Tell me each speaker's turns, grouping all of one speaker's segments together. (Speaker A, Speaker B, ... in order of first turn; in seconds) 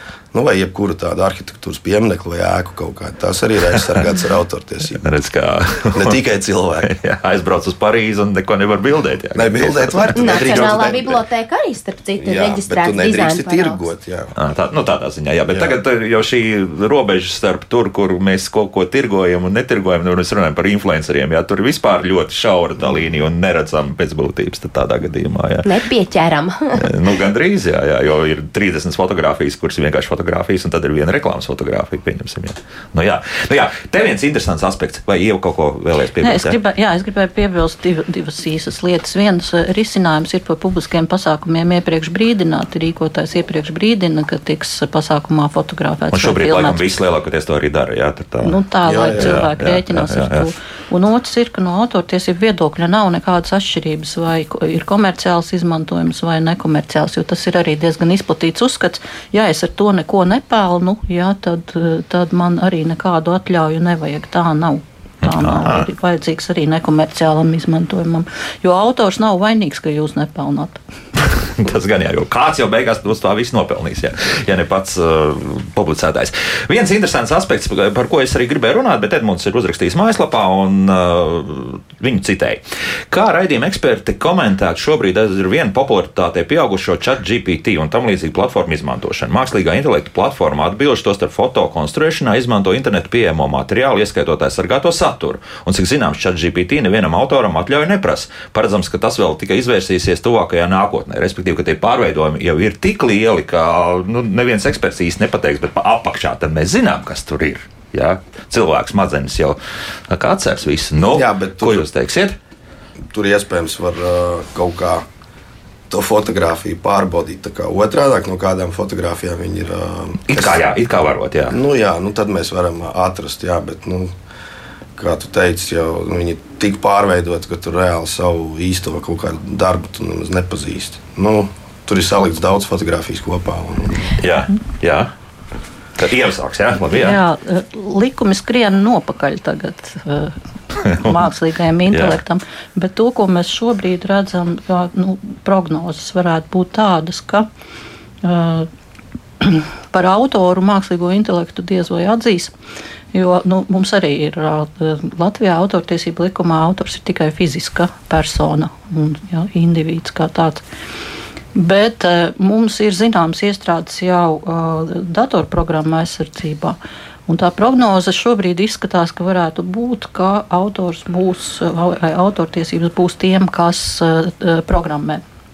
Speaker A: 0.3-5.1, 5.9-6.9, 9.3-11.2, 12.2-14.3, 48.8-49.5, 111.0-111.8, 113.1-115.0, 115.9-120.6, 121.5-124.1, 125.0-134.2
Speaker B: 5.0-6.2, 6.8-10.9, 14.3-25.7, 26.8-36.6, 46.1-50.5, 65.2-65.8, 71.2-109.6, 110.1-112.4, 120.3-121.5, 134.2-135.1, 136.0-137.2, 140.8-141.2, 141.9-142.2
Speaker C: 10.1-13.8, 25.6-26.9
Speaker D: 36.2-46.8, 48.4-70.8, 136.9-147.5, 148.2-148.7, 149.4-152.5, 153.1-160.6, 161.5-175.2